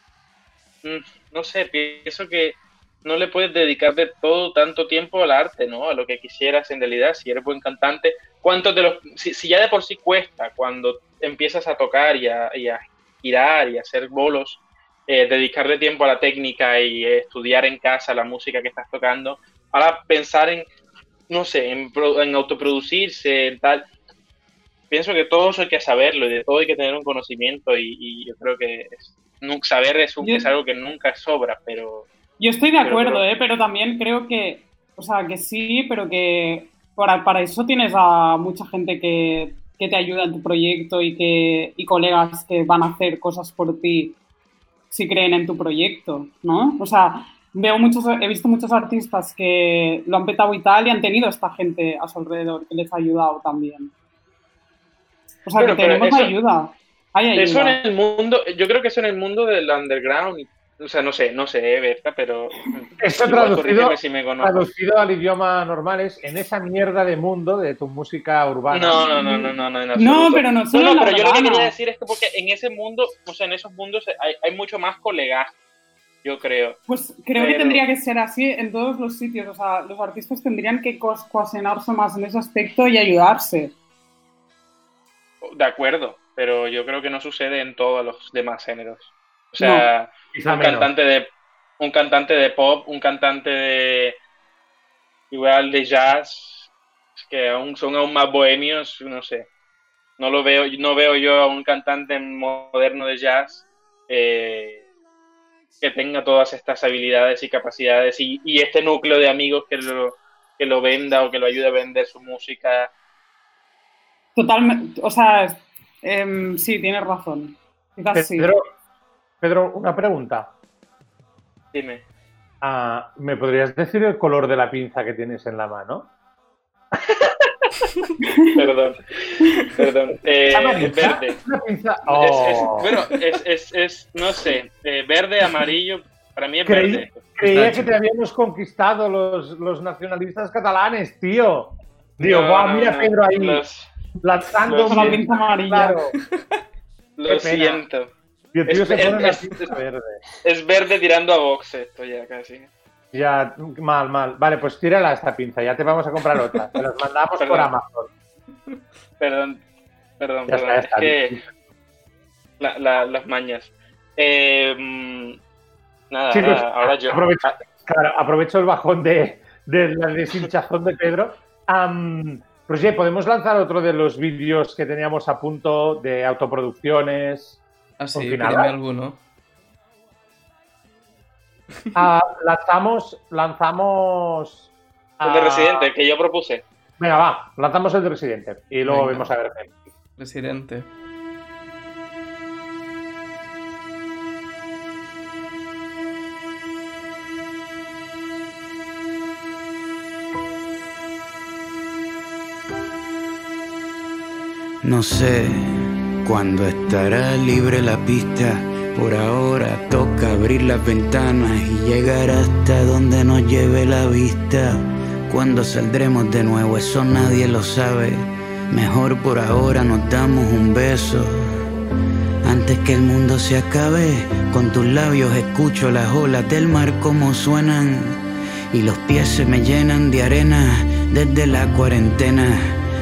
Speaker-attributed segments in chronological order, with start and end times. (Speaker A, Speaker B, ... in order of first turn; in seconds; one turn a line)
Speaker A: 0.8-20.7
Speaker A: 21.3-23.9
Speaker A: 24.9-32.1
Speaker B: 30.2-30.5
Speaker B: 32.4-44.2
Speaker A: 32.8-33.2
Speaker B: 44.9-53.9
Speaker B: 55.5-57.8
Speaker A: 55.6-56.4
Speaker A: 57.4-64.6
Speaker C: 63.0-69.1
Speaker A: 68.7-75.5
Speaker B: 69.2-71.7
Speaker A: 76.2-76.8
Speaker B: 76.9-83.7
Speaker A: 77.3-77.8
Speaker A: 85.4-94.2
Speaker B: 89.6-89.9
Speaker C: 90.3-90.9
Speaker A: 95.3-99.5
Speaker A: 100.2-104.8
Speaker A: 105.8-112.9
Speaker B: 114.4-118.5
Speaker C: 118.1-118.7
Speaker C: 119.4-120.5
Speaker A: 121.7-122.0
Speaker C: 122.6-126.1
Speaker B: 128.2-128.7
Speaker A: 128.6-131.4
Speaker C: 130.5-132.9
Speaker A: 132.1-137.8
Speaker C: 136.6-143.6
Speaker A: 142.2-143.9
Speaker C: 144.2-146.2
Speaker A: 144.6-145.2
Speaker B: 144.8-146.0
Speaker A: 147.2-148.1
Speaker C: 147.3-147.8
Speaker C: 148.5-150.2
Speaker A: 148.7-149.7
Speaker A: 150.4-152.7
Speaker C: 153.1-158.1
Speaker A: 157.4-157.7
Speaker A: 159.2-159.6
Speaker A: 160.2-161.4
Speaker C: 160.5-161.4
Speaker A: 162.6-165.4
Speaker A: 166.1-167.6
Speaker C: 166.3-177.6
Speaker D: 178.0-179.2
Speaker C: 178.1-178.8
Speaker C: 181.9-185.9
Speaker A: 185.2-186.6
Speaker C: 187.0-189.7
Speaker D: 188.8-189.3
Speaker D: 190.2-190.9
Speaker E: 204.9-205.5
Speaker E: 206.3-214.7
Speaker E: 215.3-218.2
Speaker E: 218.7-221.2
Speaker E: 222.5-228.0
Speaker E: 228.7-232.5